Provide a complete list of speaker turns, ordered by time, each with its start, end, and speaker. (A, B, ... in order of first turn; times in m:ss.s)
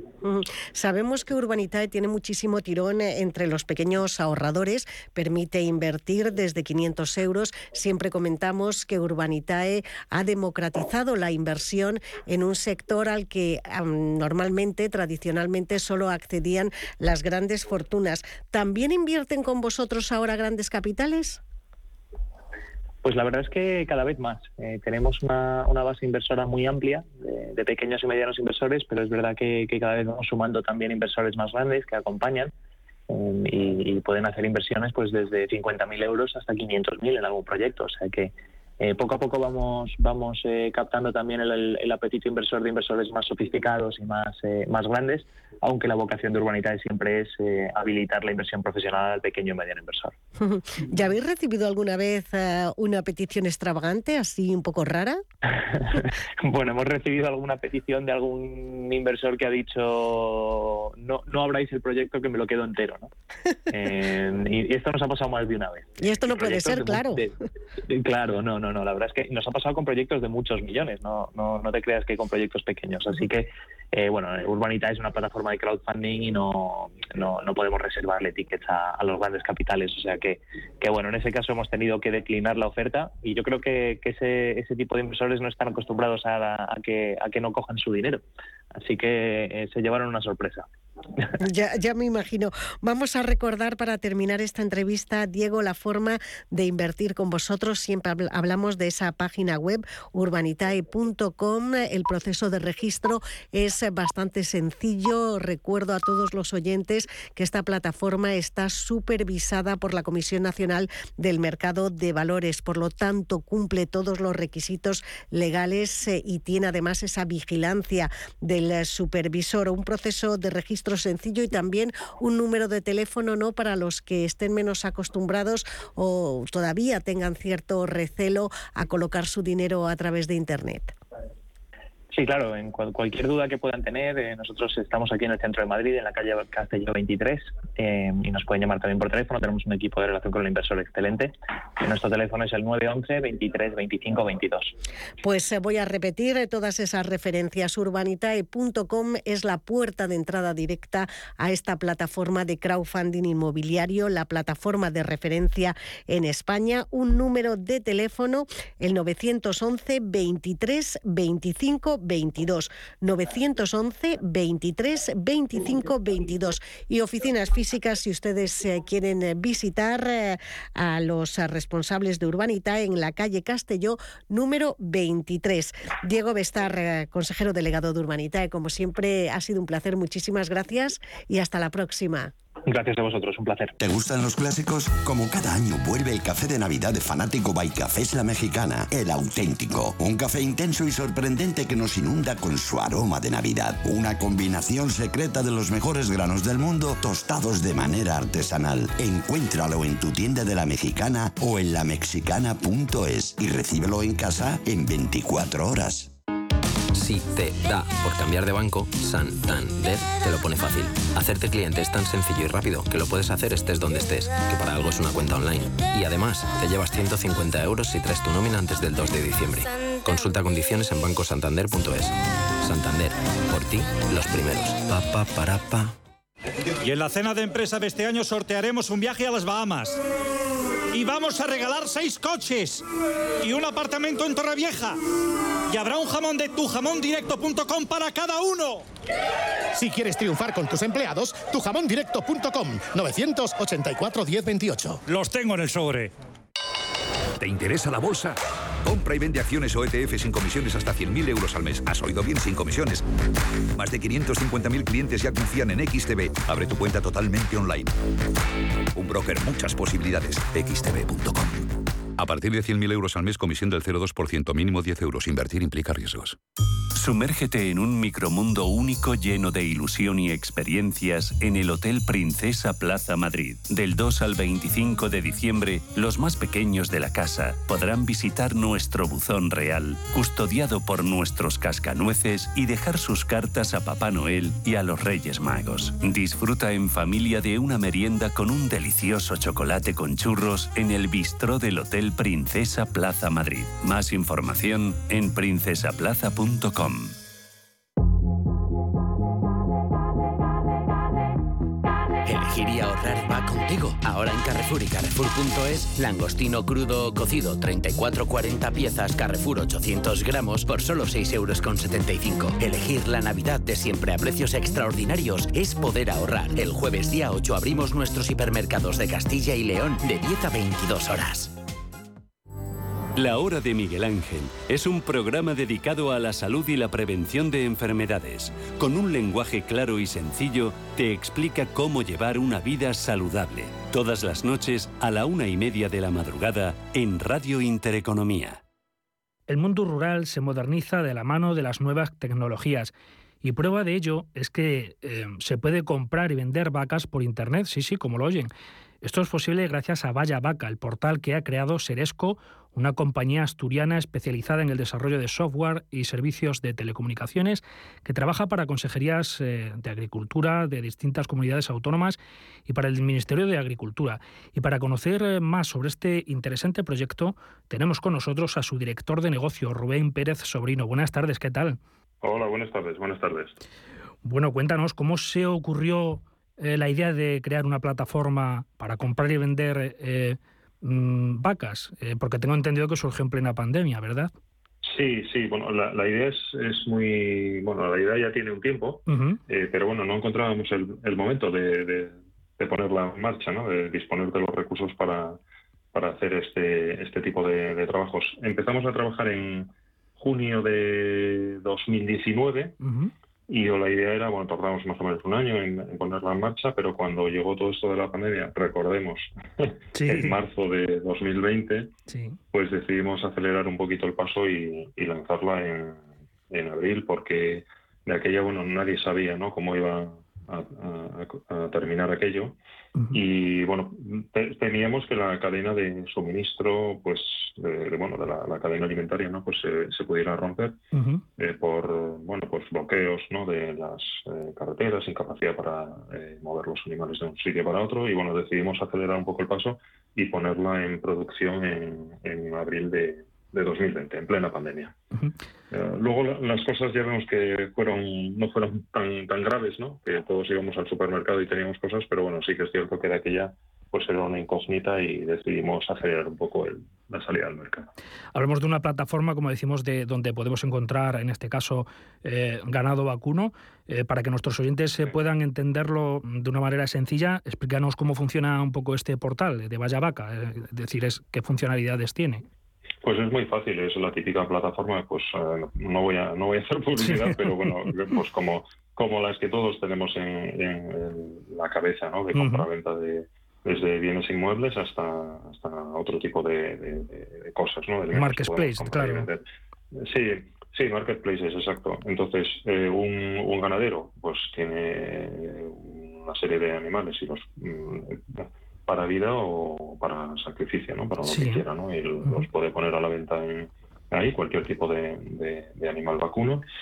0:00.2-0:21.4 A
0:23.0-0:32.5 B
0:33.1-0:50.1 B
0:50.4-0:55.2 A
0:55.7-1:03.1 B
1:03.7-1:07.3 B
1:06.0-1:07.3 A
1:07.8-1:28.2 B
1:28.8-1:30.7 B
1:31.4-2:10.9 A
2:12.1-2:24.7 B
2:25.2-3:02.3 A
3:02.6-3:03.8 B
3:03.8-3:26.1 C
3:26.9-3:45.9 D
3:46.8-3:50.0 E
3:50.9-3:52.8 E
3:53.4-3:55.0 E
3:55.7-3:58.8 E
3:59.8-4:05.0 F
4:05.1-4:06.1 E
4:07.4-4:13.0 G
4:13.8-4:17.9 G
4:18.9-4:21.7 G
4:22.2-4:26.4 G
4:27.0-4:57.1 H
5:02.2-5:21.5 I
5:23.2-5:38.6 H
5:39.5-5:48.5 J
5:49.0-6:11.8 J
6:12.2-6:13.6 K
6:14.2-6:24.3 J
6:24.8-6:35.4 K
6:29.1-6:29.4 J
6:35.9-6:42.7 K
6:42.8-6:43.1 J
6:43.5-6:51.9 K
6:50.0-6:50.4 J
6:52.1-6:52.4 J
6:52.5-7:02.6 K
7:03.0-7:03.2 J
7:03.1-7:10.8 K
7:10.9-7:11.2 J
7:11.4-7:25.0 K
7:25.7-7:37.9 K
7:38.3-7:52.4 J
7:53.0-8:26.6 K
7:57.0-7:57.8 J
8:02.3-8:02.7 J
8:08.1-8:09.3 J
8:21.2-8:21.6 J